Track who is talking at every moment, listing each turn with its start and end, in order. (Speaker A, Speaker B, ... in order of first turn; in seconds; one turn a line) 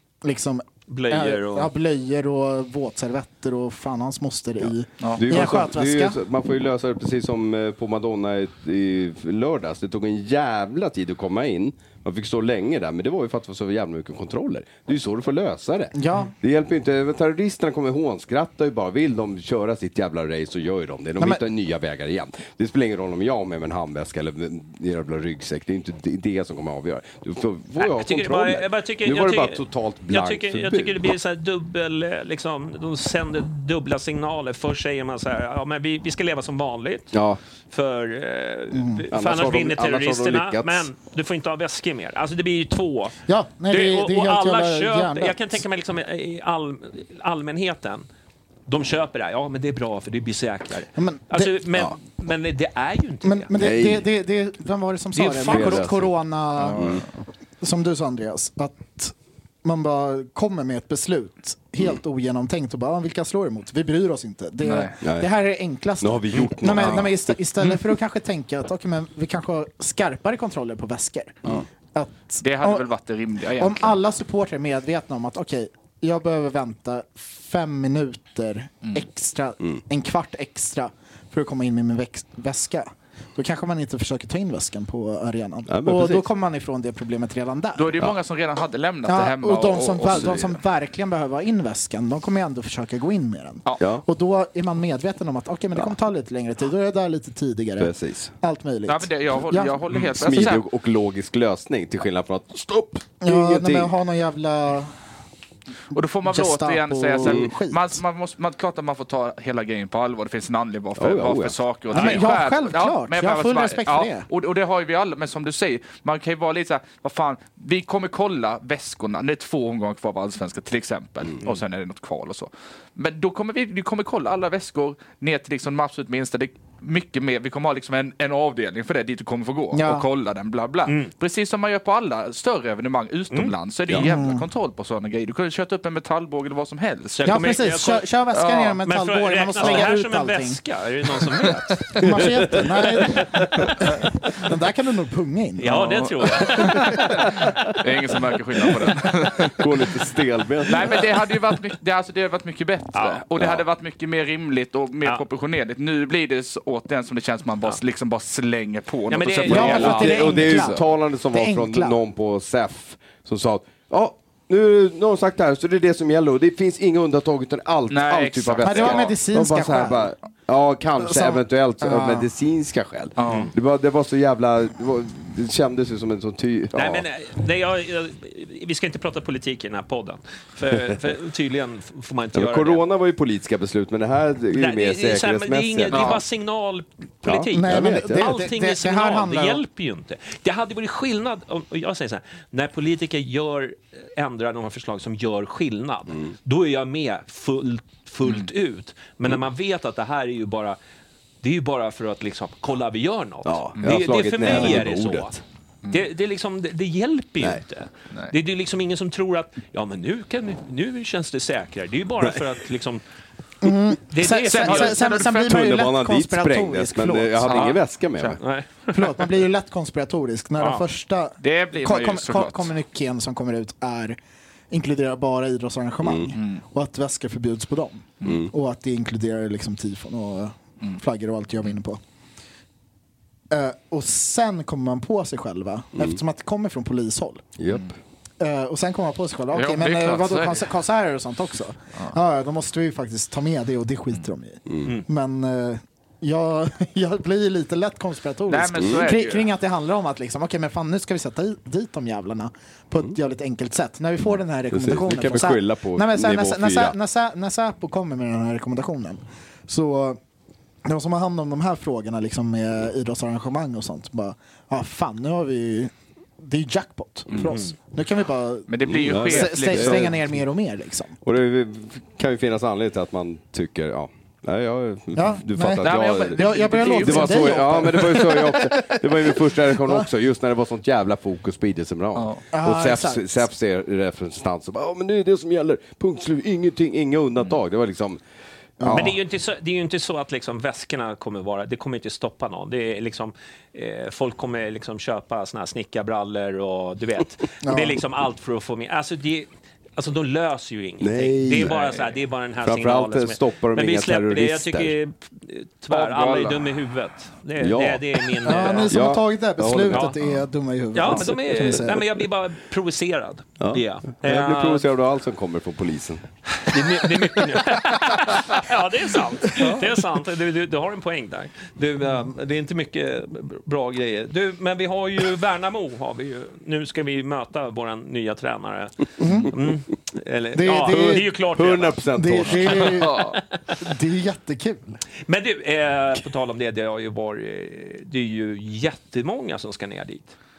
Speaker A: 0.2-6.2
Speaker B: 0.9-1.7
Speaker C: 5.0-5.5
Speaker D: 5.2-31.1
Speaker A: 15.9-16.3
Speaker B: 27.8-37.1
Speaker D: 37.1-37.4
Speaker B: 37.7-43.2
Speaker A: 38.7-39.0
Speaker D: 39.1-40.9
Speaker A: 43.3-45.6
Speaker B: 43.7-48.1
Speaker B: 48.7-53.5
Speaker A: 51.0-51.6
Speaker A: 53.2-57.0
Speaker D: 53.6-54.1
Speaker B: 55.2-55.8
Speaker D: 55.4-56.1
Speaker C: 56.6-57.0
Speaker D: 56.8-57.0
Speaker A: 57.6-72.9
Speaker C: 64.6-65.0
Speaker D: 65.0-65.3
Speaker D: 66.0-67.3
Speaker C: 66.8-67.1
Speaker C: 72.4-74.0
Speaker A: 73.6-88.0
Speaker D: 85.7-86.2
Speaker C: 87.8-90.6
Speaker A: 89.1-100.5
Speaker D: 97.8-98.3
Speaker C: 98.9-100.6
Speaker D: 99.9-103.9
Speaker A: 103.2-104.9
Speaker A: 105.9-108.0
Speaker C: 105.9-137.3
Speaker D: 107.2-107.5
Speaker D: 111.0-111.6
Speaker A: 111.9-114.3
Speaker B: 111.9-112.2
Speaker A: 129.7-130.1
Speaker A: 133.9-134.5
Speaker B: 137.2-138.1
Speaker A: 137.2-140.6
Speaker C: 138.3-138.8
Speaker B: 138.8-142.0
Speaker A: 141.9-147.0
Speaker D: 142.0-142.7
Speaker B: 145.6-147.0
Speaker C: 145.7-149.5
Speaker D: 149.6-151.0
Speaker C: 150.7-160.8
Speaker B: 152.9-153.2
Speaker D: 153.4-153.6
Speaker B: 159.1-160.2
Speaker A: 159.5-162.0
Speaker D: 159.5-177.1
Speaker C: 167.9-169.2
Speaker A: 168.6-170.2
Speaker A: 171.0-172.3
Speaker C: 173.2-173.5
Speaker B: 173.3-173.5
Speaker B: 176.7-182.8
Speaker D: 182.3-186.2
Speaker B: 184.5-200.8
Speaker C: 185.9-186.2
Speaker D: 187.2-188.4
Speaker A: 187.5-189.6
Speaker C: 198.2-198.5
Speaker B: 201.4-205.3
Speaker D: 203.4-205.4
Speaker A: 204.5-204.8
Speaker B: 205.9-213.0
Speaker A: 213.6-217.8
Speaker B: 214.1-215.1
Speaker C: 214.4-215.6
Speaker D: 215.4-218.4
Speaker C: 217.5-218.3
Speaker B: 218.4-219.1
Speaker A: 218.9-224.2
Speaker B: 220.6-220.8
Speaker C: 221.4-222.7
Speaker A: 224.7-232.0
Speaker D: 226.0-226.3
Speaker C: 226.4-226.6
Speaker D: 228.2-228.5
Speaker A: 233.5-237.4
Speaker D: 237.6-238.0
Speaker A: 238.4-260.2
Speaker C: 239.5-240.7
Speaker C: 248.5-249.5
Speaker D: 248.8-249.1
Speaker D: 254.7-256.9
Speaker A: 260.9-271.2
Speaker B: 267.5-267.7
Speaker C: 268.7-270.1
Speaker D: 268.9-270.2
Speaker D: 271.2-288.2
Speaker A: 275.1-280.1
Speaker C: 275.8-278.1
Speaker C: 282.1-282.4
Speaker A: 282.5-283.3
Speaker A: 288.8-289.1
Speaker D: 288.8-289.2
Speaker B: 288.9-309.0
Speaker A: 297.6-298.0
Speaker D: 301.0-301.7
Speaker C: 301.7-301.9
Speaker D: 302.6-304.9
Speaker C: 305.9-306.7
Speaker D: 307.6-310.2
Speaker A: 308.4-312.1
Speaker B: 309.9-310.1
Speaker B: 310.9-314.9
Speaker D: 311.1-311.8
Speaker D: 313.6-317.6
Speaker B: 316.6-333.8
Speaker A: 329.2-329.6
Speaker A: 330.5-331.3
Speaker D: 330.9-333.0
Speaker A: 332.1-335.0
Speaker C: 332.8-333.4
Speaker B: 335.3-340.3